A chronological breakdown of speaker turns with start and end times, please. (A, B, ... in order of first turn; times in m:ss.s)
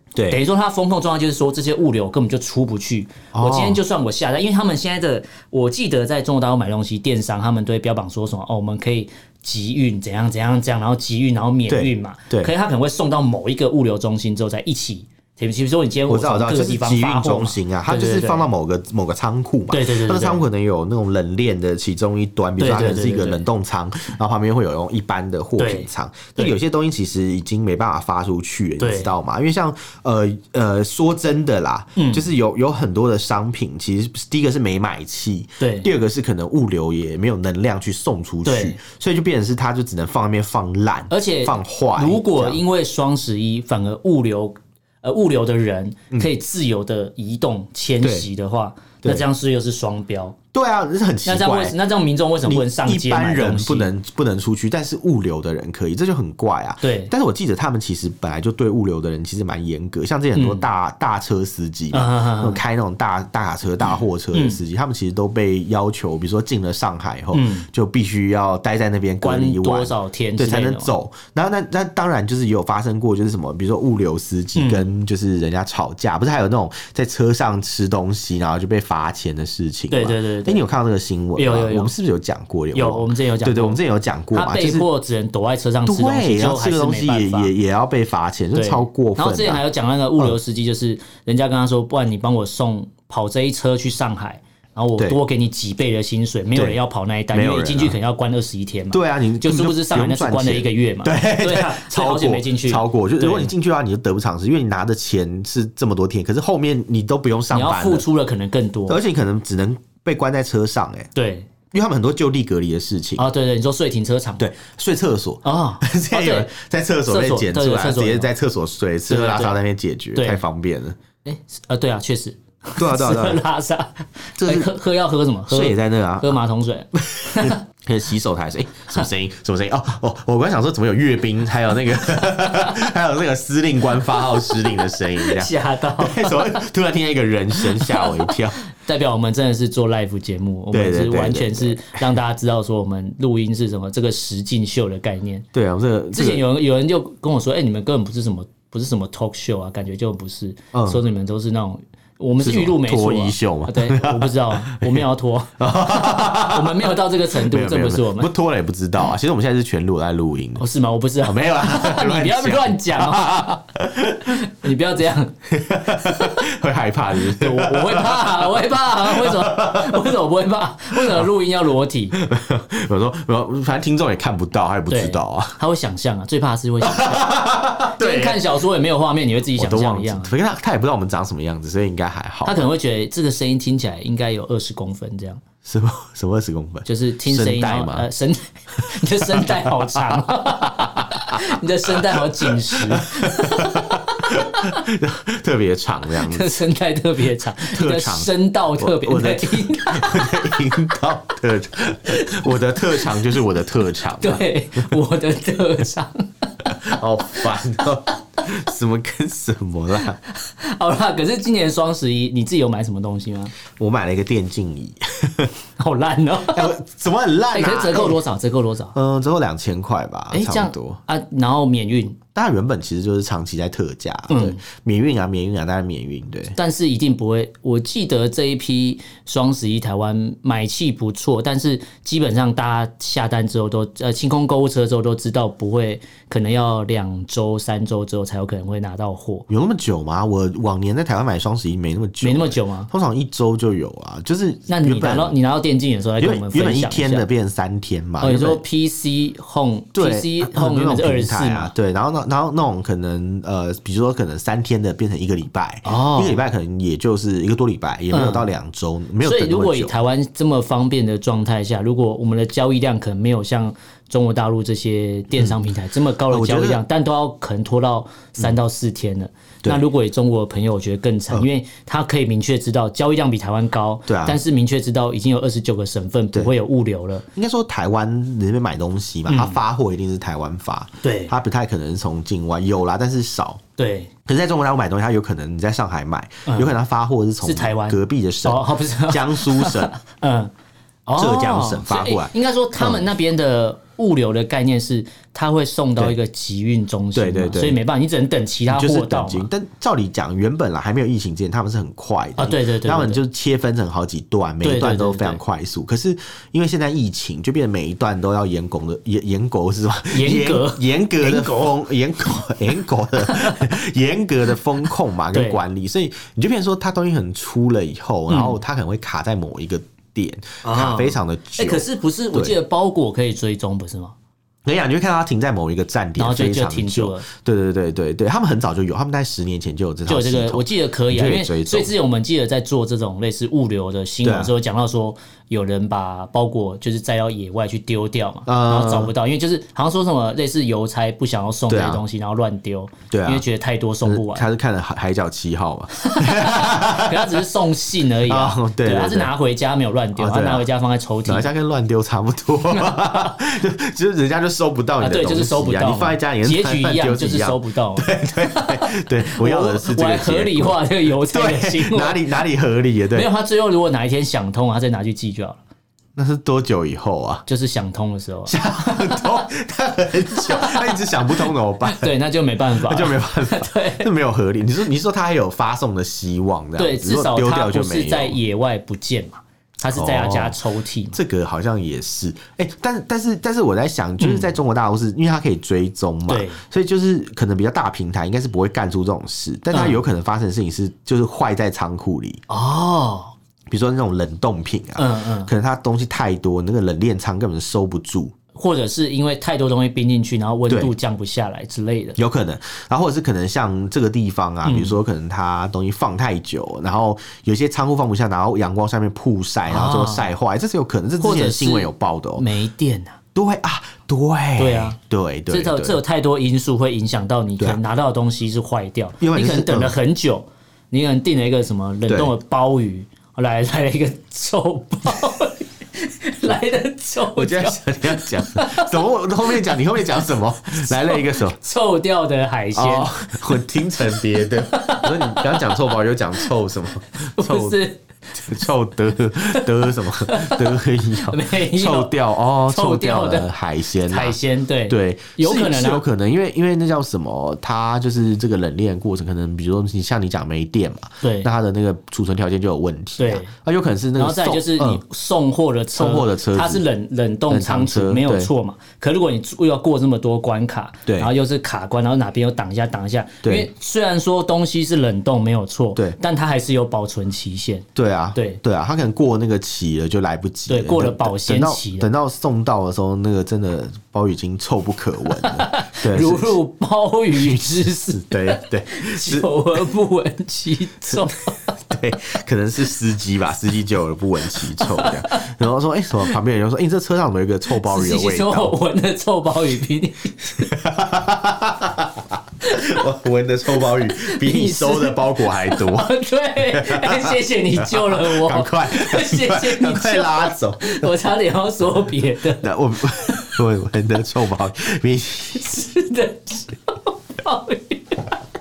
0:00.2-0:00.4 A
0:00.3-0:18.5 B
0:03.3-0:03.8 A
0:11.7-0:12.5 A
0:16.1-0:42.6 A
0:19.7-0:20.4 B
0:22.6-0:23.4 B
0:25.6-0:26.6 B
0:28.8-0:29.1 B
0:32.0-0:32.2 B
0:35.6-0:35.9 B
0:38.4-0:38.8 B
0:41.1-0:50.4 B
0:48.0-0:48.3 A
0:50.5-0:51.8 A
0:51.2-0:53.9 B
0:52.4-1:24.9 A
0:56.8-0:57.1 B
1:00.4-1:00.7 B
1:01.9-1:02.6 B
1:04.3-1:04.6 B
1:07.3-1:07.7 B
1:09.2-1:10.9 B
1:14.6-1:14.9 B
1:19.9-1:20.6 B
1:21.4-1:21.9 B
1:22.7-1:23.8 B
1:24.3-1:27.5 B
1:25.8-1:29.6 A
1:28.6-1:43.5 B
1:37.3-1:38.0 A
1:38.9-1:48.0 A
1:47.5-1:49.0 B
1:48.9-1:51.1 A
1:51.2-1:51.5 B
1:51.7-1:53.2 A
1:53.2-1:54.4 B
1:54.4-2:01.0 A
1:55.4-1:56.5 B
1:57.1-1:58.3 B
1:59.1-1:59.6 B
2:00.2-2:00.4 B
2:01.2-2:07.6 B
2:02.8-2:03.4 A
2:04.4-2:04.7 A
2:05.5-2:06.4 A
2:07.0-2:18.6 A
2:15.2-2:16.6 B
2:17.6-2:25.5 B
2:20.7-2:22.1 A
2:25.5-2:26.4 A
2:26.1-2:38.3 B
2:30.7-2:31.0 A
2:32.4-2:35.0 A
2:35.6-2:40.6 A
2:40.6-2:43.6 B
2:41.2-2:44.4 A
2:44.3-2:45.4 B
2:45.5-2:50.1 A
2:45.9-2:46.4 B
2:47.3-2:52.2 B
2:50.9-2:51.3 A
2:52.1-2:55.6 A
2:54.9-3:00.3 B
2:56.8-2:58.4 A
2:59.6-3:02.6 A
3:02.4-3:05.4 B
3:05.6-3:08.1 A
3:06.9-3:14.8 B
3:08.8-3:16.6 A
3:16.1-3:20.8 B
3:17.6-3:24.9 A
3:22.1-3:23.2 B
3:24.2-3:26.7 B
3:26.7-3:30.2 A
3:30.2-3:33.5 B
3:33.8-3:35.5 A
3:35.8-3:36.7 B
3:36.5-3:38.2 A
3:37.5-3:39.0 B
3:38.9-3:41.0 A
3:40.3-3:42.2 B
3:42.3-3:46.6 A
3:44.3-3:44.6 B
3:46.6-3:59.5 B
3:59.5-4:05.4 A
4:02.2-4:02.9 B
4:04.7-4:07.3 B
4:06.2-4:08.6 A
4:08.2-4:11.7 B
4:09.9-4:19.9 A
4:15.8-4:16.4 B
4:18.1-4:18.5 B
4:19.2-4:37.3 B
4:26.3-4:26.8 A
4:34.1-4:34.4 A
4:37.4-4:43.6 A
4:39.3-4:39.6 B
4:41.0-4:41.3 B
4:43.8-4:44.1 B
4:44.3-4:50.0 A
4:46.5-4:46.7 B
4:47.4-4:50.5 B
4:51.1-4:59.5 B
4:51.2-4:53.1 A
4:57.2-4:57.8 A
4:58.7-5:22.6 A
5:02.4-5:03.2 B
5:04.6-5:05.4 B
5:10.1-5:11.8 B
5:13.3-5:13.6 B
5:15.3-5:15.6 B
5:18.3-5:18.6 B
5:20.6-5:24.1 B
5:24.6-5:31.9 A
5:26.2-5:27.3 B
5:30.1-5:44.5 B
5:34.2-5:34.5 A
5:38.5-5:39.1 A
5:41.7-5:42.0 A
5:43.1-5:43.4 A
5:44.0-5:47.4 A
5:46.0-5:51.5 B
5:48.3-5:49.3 A
5:50.2-5:50.7 A
5:51.3-6:03.3 A
5:52.7-5:53.3 B
5:55.0-6:02.3 B
6:03.1-6:05.6 B
6:06.2-6:07.5 A
6:07.5-6:09.4 B
6:08.5-6:12.1 A
6:10.3-6:14.1 B
6:12.8-6:18.4 A
6:16.8-6:21.2 B
6:19.9-6:20.6 A
6:21.1-6:32.4 A
6:24.2-6:24.5 B
6:26.3-6:26.6 B
6:29.7-6:30.0 B
6:32.5-6:33.3 B
6:33.7-6:38.3 A
6:35.0-6:35.5 B
6:38.6-6:42.2 B
6:42.2-6:52.5 A
6:44.6-6:45.0 B
6:49.7-6:50.3 B
6:51.2-6:53.2 B
6:53.4-6:56.0 A
6:54.6-6:55.0 B
6:55.5-7:08.9 B
6:59.2-7:00.0 A
7:02.1-7:02.3 A
7:07.4-7:11.6 A
7:10.7-7:13.1 B
7:12.8-7:17.8 A
7:14.1-7:16.5 B
7:17.4-7:18.0 B
7:18.3-7:24.4 A
7:20.2-7:22.1 B
7:22.7-7:23.5 B
7:24.1-7:26.0 B
7:24.9-7:35.0 A
7:31.2-7:31.5 B
7:33.2-7:33.5 B
7:34.2-7:48.6 B
7:36.0-7:36.8 A
7:37.5-7:38.5 A
7:43.4-7:43.7 A
7:48.0-7:56.6 A
7:50.7-7:52.1 B
7:55.4-8:01.7 B
7:57.3-7:59.5 A
8:01.9-8:08.7 A
8:04.6-8:05.6 B
8:07.8-8:10.7 B
8:10.6-8:21.1 A
8:12.6-8:13.0 B
8:13.8-8:23.6 B
8:22.6-8:25.8 A
8:25.5-8:28.4 B